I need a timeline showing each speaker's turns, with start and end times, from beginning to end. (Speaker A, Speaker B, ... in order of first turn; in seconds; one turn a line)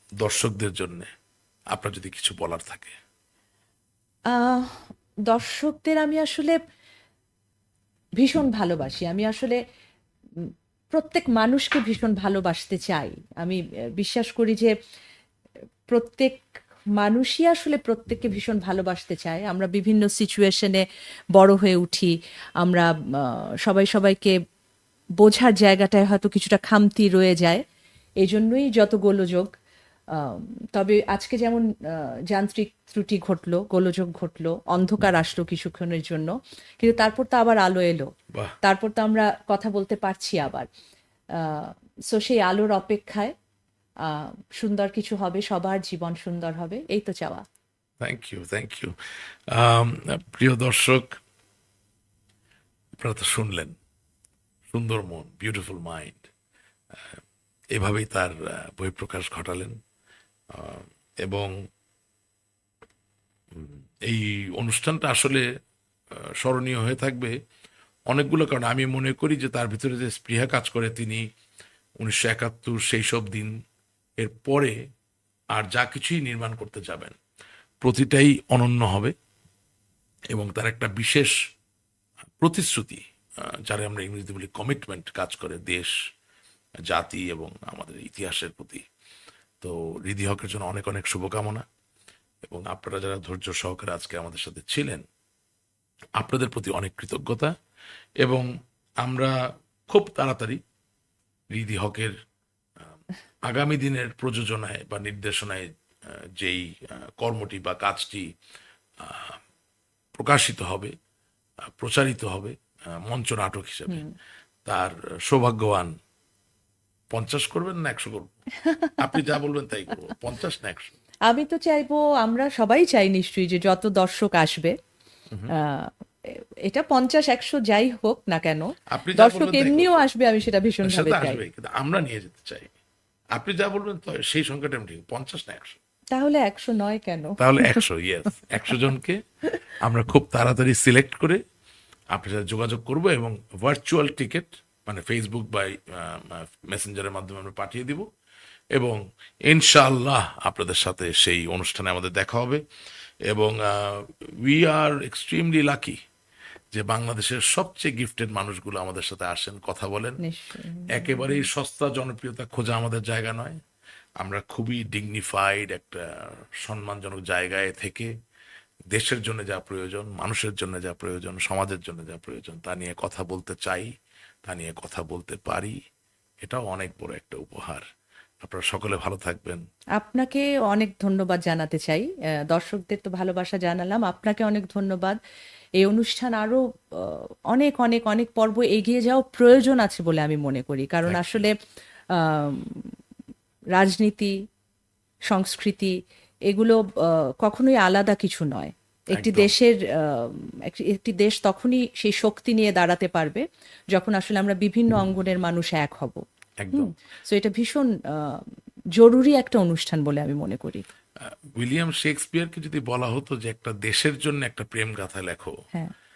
Speaker A: 0.2-1.1
Speaker A: 1.7-2.9
Speaker B: 4.3-6.5
Speaker B: 8.2-9.6
Speaker B: 10.4-14.7
Speaker B: 15.9-20.8
Speaker B: 21.4-24.3
Speaker B: 25.2-27.6
Speaker B: 28.2-29.5
Speaker B: 30.1-38.1
Speaker B: 38.6-40.7
Speaker B: 41.3-43.3
Speaker B: 44.0-47.4
Speaker A: 48.0-49.0
Speaker A: 49.5-51.2
Speaker A: 53.0-53.7
Speaker A: 54.7-56.3
Speaker A: 57.7-59.8
Speaker A: 60.5-61.5
Speaker A: 63.5-65.4
Speaker A: 66.2-67.3
Speaker A: 68.1-71.2
Speaker A: 72.0-73.5
Speaker A: 74.2-74.7
Speaker A: 75.5-77.2
Speaker A: 77.8-79.1
Speaker A: 80.3-81.3
Speaker A: 82.4-85.9
Speaker A: 86.9-88.8
Speaker A: 89.6-91.6
Speaker A: 92.5-95.0
Speaker A: 96.2-97.5
Speaker A: 98.2-98.5
Speaker A: 99.0-99.3
Speaker A: 99.9-100.6
Speaker A: 101.5-102.1
Speaker A: 103.4-105.7
Speaker A: 106.4-108.2
Speaker A: 109.0-109.4
Speaker A: 110.2-110.9
Speaker A: 111.8-114.0
Speaker A: 114.7-115.9
Speaker A: 117.1-118.3
Speaker B: 118.6-119.0
Speaker A: 119.0-121.0
Speaker B: 121.3-124.7
Speaker B: 125.5-125.9
Speaker B: 126.6-131.4
Speaker A: 128.9-130.1
Speaker A: 130.8-132.7
Speaker A: 133.3-135.8
Speaker B: 136.1-137.8
Speaker A: 137.4-139.2
Speaker A: 139.8-141.4
Speaker A: 142.1-148.1
Speaker A: 148.7-152.6
Speaker A: 153.3-156.0
Speaker A: 156.7-160.2
Speaker B: 160.2-161.4
Speaker A: 160.9-163.6
Speaker A: 164.2-168.1
Speaker A: 168.9-173.9
Speaker A: 174.4-175.8
Speaker A: 176.4-177.8
Speaker A: 178.4-179.6
Speaker B: 180.0-185.2
Speaker B: 185.8-191.5
Speaker A: 191.1-191.5
Speaker B: 192.1-192.9
Speaker B: 193.7-194.3
Speaker B: 195.3-195.9
Speaker B: 196.5-210.8
Speaker A: 199.1-199.5
Speaker A: 206.6-206.9
Speaker A: 211.2-215.5